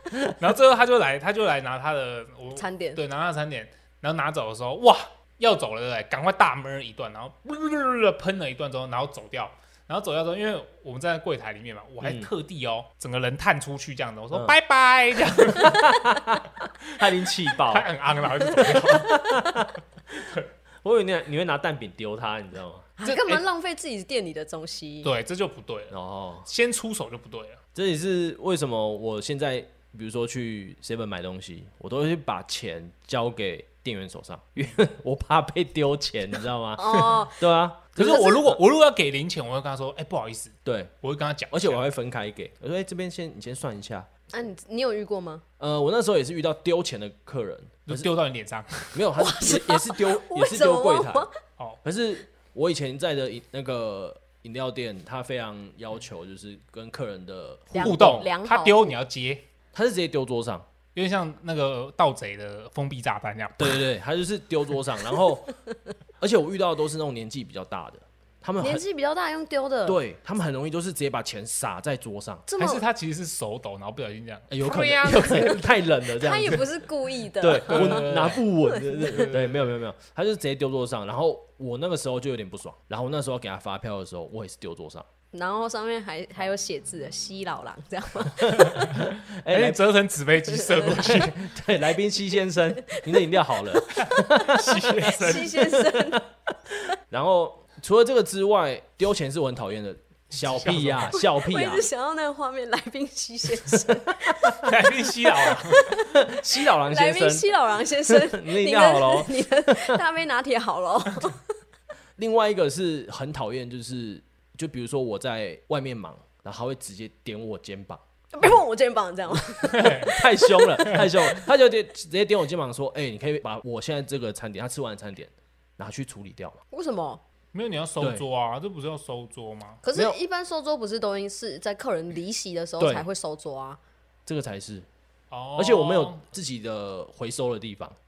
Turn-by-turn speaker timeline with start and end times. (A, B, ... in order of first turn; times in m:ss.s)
0:00.3-0:15.9 A
0:02.6-0:03.0 B
0:12.0-0:12.3 C
0:15.6-0:17.9 C
0:16.9-0:19.2 A
0:18.6-0:19.7 C
0:20.2-0:20.4 A
0:20.8-0:22.9 C
0:23.0-0:25.1 B
0:23.0-0:23.4 A
0:25.0-0:27.6 A
0:25.9-0:26.5 C
0:27.7-0:38.5 C
0:36.8-0:37.4 B
0:38.0-0:41.8 A
0:38.0-0:38.3 B
0:40.6-0:40.9 C
0:41.5-0:44.1 C
0:44.3-0:45.4 B
0:45.6-0:48.1 C
0:47.8-0:49.0 A
0:48.9-0:51.3 C
0:49.2-0:51.3 B
0:51.8-0:58.2 C
0:57.7-0:58.9 B
0:57.7-0:59.4 A
0:59.7-1:00.6 C
1:00.9-1:03.8 A
1:03.6-1:05.6 C
1:06.2-1:08.8 C
1:08.6-1:10.0 B
1:09.8-1:12.5 C
1:12.5-1:12.8 B
1:12.6-1:15.7 A
1:14.5-1:16.7 C
1:15.3-1:15.5 B
1:16.1-1:19.3 B
1:17.4-1:25.1 C
1:17.6-1:18.5 A
1:19.1-1:19.6 A
1:25.3-1:28.9 B
1:28.5-1:31.4 A
1:28.6-1:29.8 C
1:30.6-1:30.9 B
1:30.8-1:36.2 C
1:32.8-1:36.2 B
1:34.0-1:35.6 A
1:36.7-1:41.8 C
1:40.3-1:41.2 A
1:41.1-1:44.7 B
1:43.7-1:44.5 C
1:44.6-1:46.0 A
1:45.3-1:51.4 B
1:46.1-1:47.5 C
1:48.1-1:50.0 C
1:52.2-1:58.0 C
1:58.3-2:01.3 B
1:59.7-2:00.1 A
1:59.8-2:06.6 C
2:06.7-2:07.2 B
2:07.5-2:09.8 A
2:09.8-2:13.8 B
2:12.8-2:13.1 C
2:14.2-2:14.9 C
2:15.3-2:16.2 A
2:15.6-2:18.0 C